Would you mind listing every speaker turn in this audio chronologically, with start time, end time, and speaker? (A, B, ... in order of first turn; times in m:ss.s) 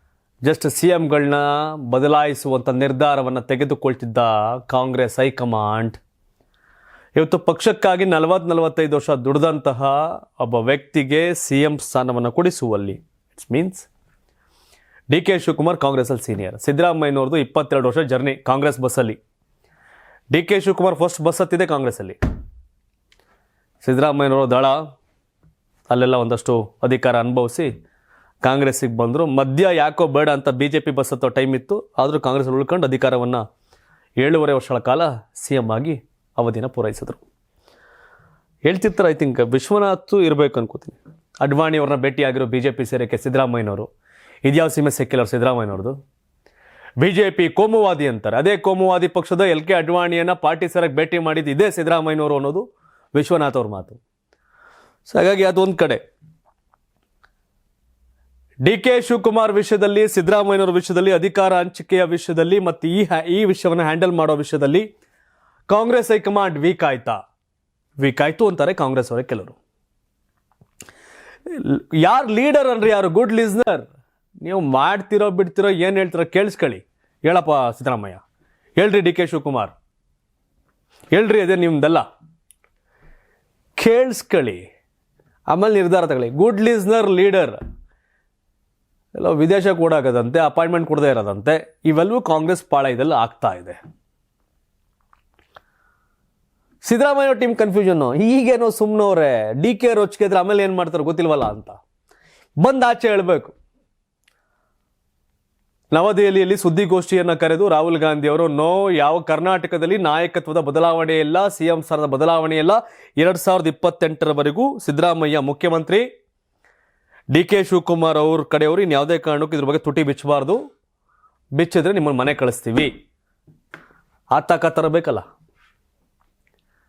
0:00.4-0:06.0 A
0:07.2-0:13.9 A
0:15.1-0:19.2 A
0:20.3-0:22.2 A
0:23.8-0:24.8 A
0:25.9-0:27.7 A
0:28.4-0:33.4 A
0:34.2-0:37.2 A
0:38.6-0:43.9 A
0:44.4-0:46.0 A
0:47.0-0:54.0 A
0:55.1-0:56.0 A
0:58.6-1:04.9 A
1:05.7-1:07.2 A
1:08.0-1:09.6 A
1:11.6-1:13.8 A
1:14.4-1:18.2 A
1:18.8-1:19.7 A
1:21.1-1:22.0 A
1:23.8-1:24.6 A
1:25.5-1:27.6 A
1:29.2-1:33.8 A
1:36.8-1:41.8 A
1:42.6-1:43.6 A
1:45.9-1:56.1 A
1:57.3-2:00.6 A
2:01.6-2:02.9 A
2:04.3-2:05.2 A